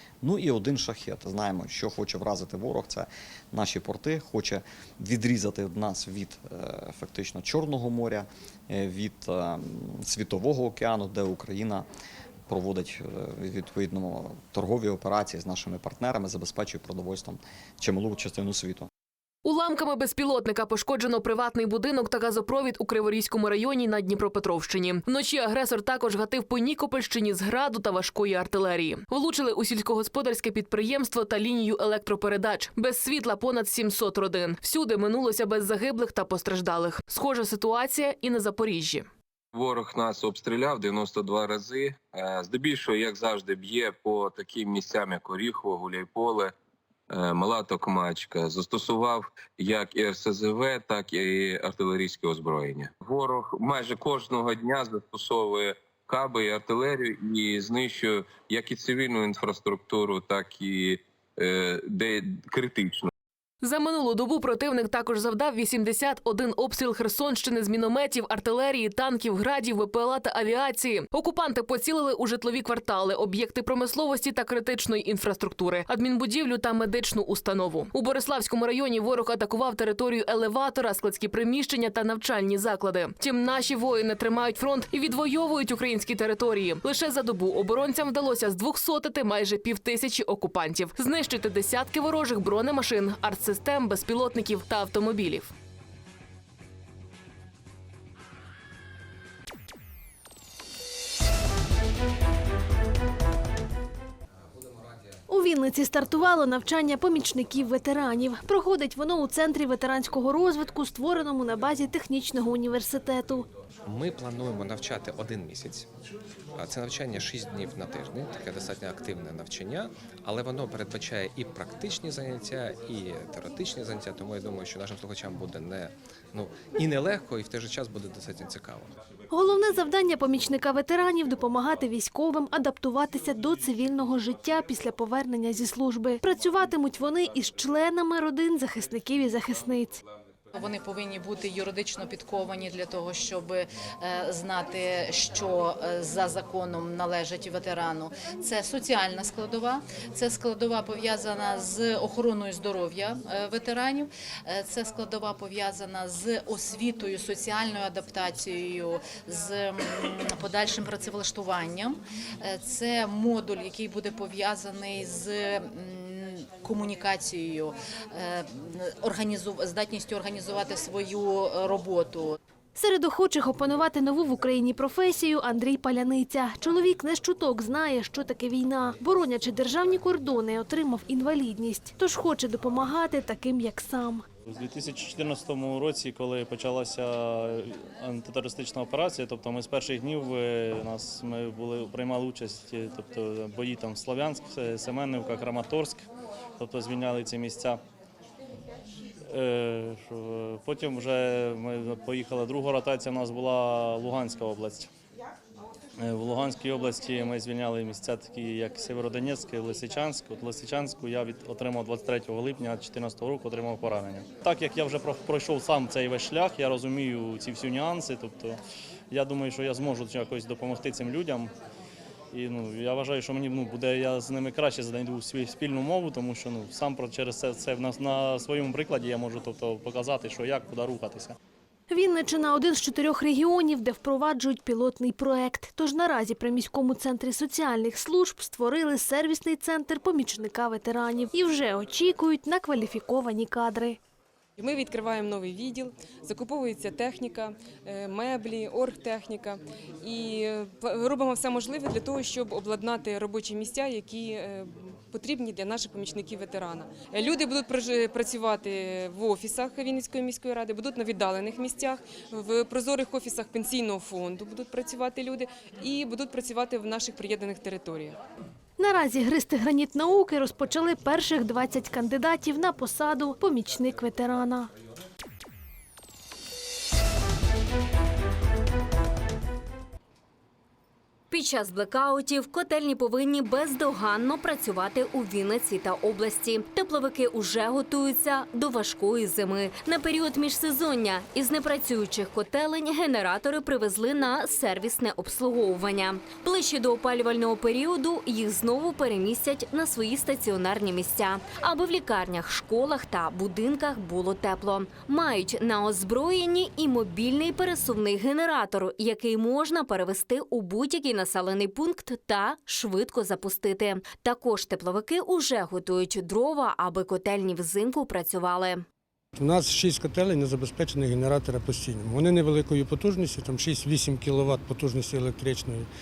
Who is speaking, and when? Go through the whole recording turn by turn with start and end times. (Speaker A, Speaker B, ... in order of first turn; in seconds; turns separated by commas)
Speaker A: 0.2-11.9, Speaker A: 12.5-18.9, Speaker B: 19.4-39.1, Speaker C: 39.5-46.5, Speaker C: 47.1-63.1, Speaker B: 63.6-95.5, Speaker D: 105.3-113.5, Speaker E: 113.9-115.9, Speaker E: 116.6-128.9, Speaker D: 129.3-140.0, Speaker F: 140.5-172.4, Speaker D: 172.8-184.2, Speaker G: 184.5-196.1, Speaker G: 196.6-197.8, Speaker G: 199.3-204.9, Speaker G: 206.0-218.6, Speaker G: 219.1-221.5, Speaker G: 222.3-231.3, Speaker D: 231.9-244.0, Speaker H: 244.6-268.2, Speaker D: 268.8-274.7, Speaker I: 281.3-318.8, Speaker J: 319.4-325.9